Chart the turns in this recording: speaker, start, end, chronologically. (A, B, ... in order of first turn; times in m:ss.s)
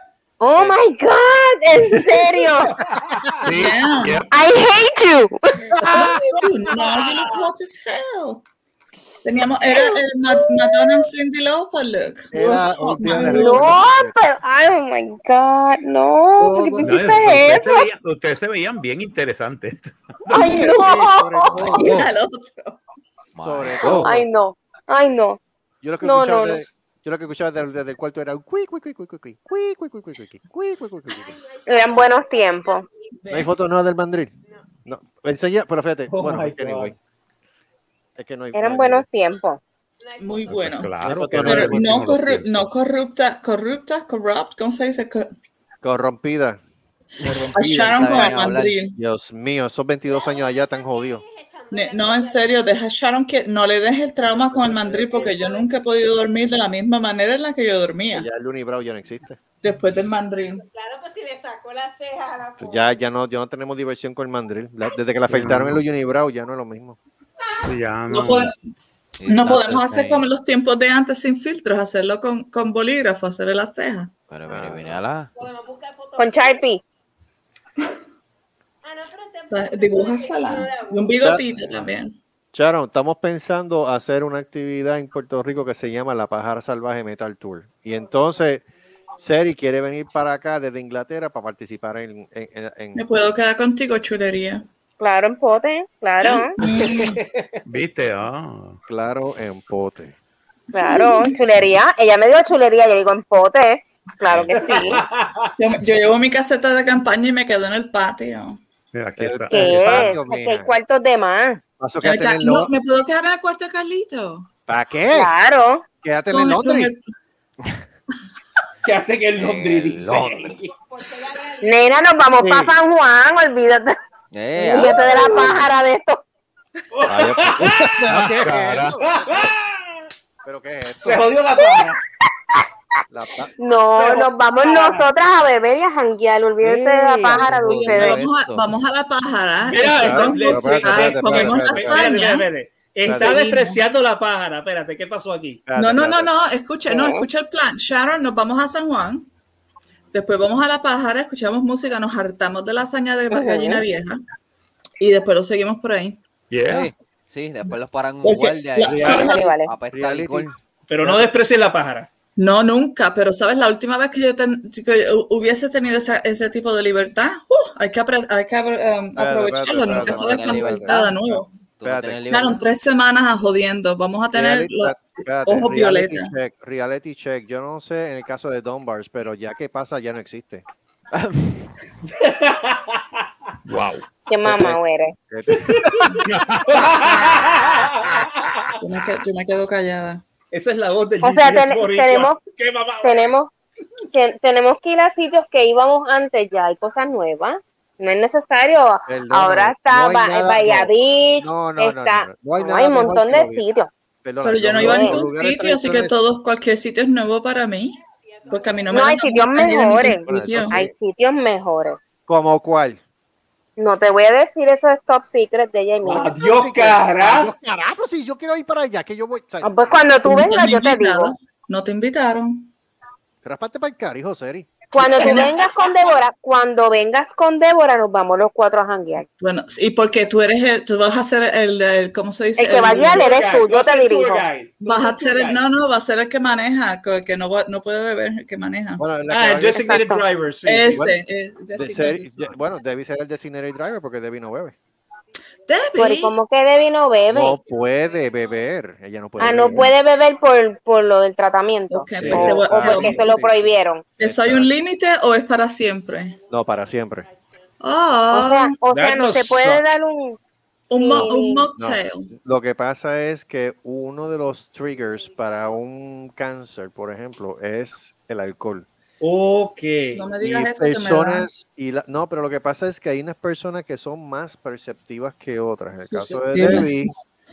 0:00.4-0:02.8 A
0:01.9-0:02.2 B
0:02.7-0:03.2 C
0:03.4-0:04.3 D
0:03.4-0:04.3 E
0:04.3-0:06.2 A
0:05.6-0:08.4 E
0:09.2-0:13.8 E
0:09.7-0:11.1 A
0:12.3-0:14.2 B
0:13.1-0:17.9 A
0:16.4-0:17.1 B
0:16.8-0:20.7 D
0:20.3-0:21.9 A
0:20.3-0:22.1 B
0:21.7-0:22.8 E
0:23.4-0:24.1 F
0:23.4-0:24.3 B
0:24.0-0:25.4 A
0:25.8-0:31.4 B
0:26.0-0:26.6 A
0:31.1-0:33.2 G
0:31.7-0:32.8 A
0:33.3-0:34.3 B
0:34.8-0:37.0 B
0:36.1-0:36.9 C
0:38.2-0:39.1 B
0:38.5-0:39.6 A
0:40.0-0:40.6 G
0:40.2-0:45.3 E
0:40.5-0:42.7 D
0:41.0-0:42.0 B
0:45.8-0:46.6 B
0:47.2-0:48.8 F
0:47.2-0:48.1 B
0:47.5-0:49.0 E
0:49.0-0:51.2 B
0:50.1-0:52.7 G
0:51.7-0:58.2 E
0:54.5-0:55.4 B
0:55.0-0:55.7 G
0:58.1-0:59.4 B
0:59.6-1:00.6 E
1:00.4-1:03.0 G
1:02.6-1:07.0 B
1:05.3-1:05.8 D
1:07.6-1:08.5 D
1:08.1-1:08.6 E
1:09.2-1:10.3 F
1:09.3-1:14.1 E
1:14.3-1:15.3 F
1:14.5-1:15.0 B
1:15.4-1:16.7 G
1:16.2-1:16.8 A
1:18.8-1:21.7 G
1:19.5-1:22.2 E
1:21.2-1:21.5 B
1:22.5-1:28.6 B
1:27.9-1:28.6 G
1:29.2-1:33.1 B
1:33.0-1:34.6 E
1:35.0-1:36.6 A
1:36.2-1:37.2 E
1:36.7-1:37.6 C
1:37.7-1:38.8 D
1:38.9-1:40.1 B
1:40.7-1:41.4 E
1:40.7-1:45.0 A
1:44.3-1:45.0 B
1:44.5-1:45.6 C
1:45.6-1:48.6 E
1:48.9-1:50.2 D
1:49.2-1:50.8 B
1:49.5-1:51.6 A
1:51.8-1:52.7 B
1:52.0-1:54.5 E
1:54.7-1:55.3 B
1:55.1-1:55.8 A
1:56.0-1:56.9 B
1:56.3-1:57.0 E
1:58.8-2:00.7 C
1:59.4-2:00.5 F
2:00.8-2:02.1 G
2:01.6-2:04.0 A
2:02.4-2:02.8 B
2:04.3-2:05.7 F
2:04.6-2:05.6 E
2:04.6-2:06.2 A
2:06.9-2:07.9 C
2:07.0-2:09.4 B
2:08.1-2:09.0 D
2:09.0-2:09.9 C
2:10.4-2:11.3 B
2:11.0-2:12.0 C
2:11.6-2:11.9 A
2:13.1-2:13.5 B
2:13.6-2:18.2 A
2:13.8-2:15.1 C
2:16.6-2:18.7 F
2:17.8-2:22.5 E
2:19.6-2:25.6 C
2:19.8-2:22.2 B
2:23.1-2:23.4 B
2:23.1-2:23.8 E
2:25.7-2:26.3 B
2:25.8-2:29.3 E
2:26.9-2:27.3 A
2:30.1-2:34.2 E
2:33.3-2:33.8 A
2:35.0-2:36.2 E
2:36.5-2:36.9 D
2:36.7-2:40.5 F
2:38.2-2:39.6 E
2:38.9-2:39.4 B
2:39.0-2:39.3 C
2:39.1-2:39.7 A
2:39.9-2:41.3 B
2:40.9-2:42.1 C
2:42.4-2:51.5 E
2:49.2-2:52.3 B
2:49.9-2:51.2 F
2:51.8-2:52.6 F
2:52.3-2:56.3 E
2:54.3-3:00.6 B
3:01.2-3:01.7 F
3:02.1-3:03.0 C
3:03.6-3:04.1 D
3:04.3-3:05.2 A
3:04.4-3:04.8 B
3:05.3-3:06.2 B
3:05.5-3:06.1 C
3:06.2-3:07.0 D
3:06.7-3:08.6 C
3:07.0-3:07.6 E
3:08.8-3:10.2 E
3:10.5-3:13.4 C
3:11.2-3:12.4 A
3:13.0-3:13.5 A
3:14.1-3:23.9 A
3:19.1-3:23.6 B
3:24.2-3:26.1 B
3:24.4-3:28.0 E
3:24.8-3:25.2 A
3:28.0-3:29.4 G
3:28.5-3:30.8 E
3:28.9-3:32.0 A
3:30.3-3:30.9 B
3:32.3-3:33.0 B
3:33.8-3:36.3 A
3:36.0-3:37.5 C
3:36.1-3:40.2 B
3:39.6-3:41.3 A
3:40.2-3:42.7 E
3:43.4-3:45.3 B
3:44.9-3:49.3 A
3:44.9-3:45.6 E
3:49.4-3:53.3 E
3:52.6-3:54.5 A
3:53.0-3:55.6 C
3:54.8-3:59.1 E
3:59.0-4:00.0 B
3:59.3-4:01.1 C
3:59.7-4:00.3 A
4:00.7-4:02.6 E
4:00.9-4:01.2 B
4:01.8-4:04.8 B
4:05.7-4:06.4 E
4:06.0-4:07.6 A
4:07.3-4:09.9 B
4:07.5-4:08.8 G
4:09.4-4:14.2 A
4:11.9-4:13.3 E
4:12.2-4:14.7 B
4:12.2-4:12.6 C
4:14.2-4:16.3 E
4:16.0-4:18.2 G
4:16.5-4:17.3 B
4:17.8-4:18.8 E
4:18.3-4:20.4 A
4:18.9-4:19.8 C
4:20.9-4:22.3 E
4:21.0-4:21.7 A
4:21.8-4:28.9 B
4:24.9-4:25.8 G
4:29.2-4:30.2 C
4:30.1-4:31.5 E
4:30.4-4:37.1 B
4:36.1-4:37.2 E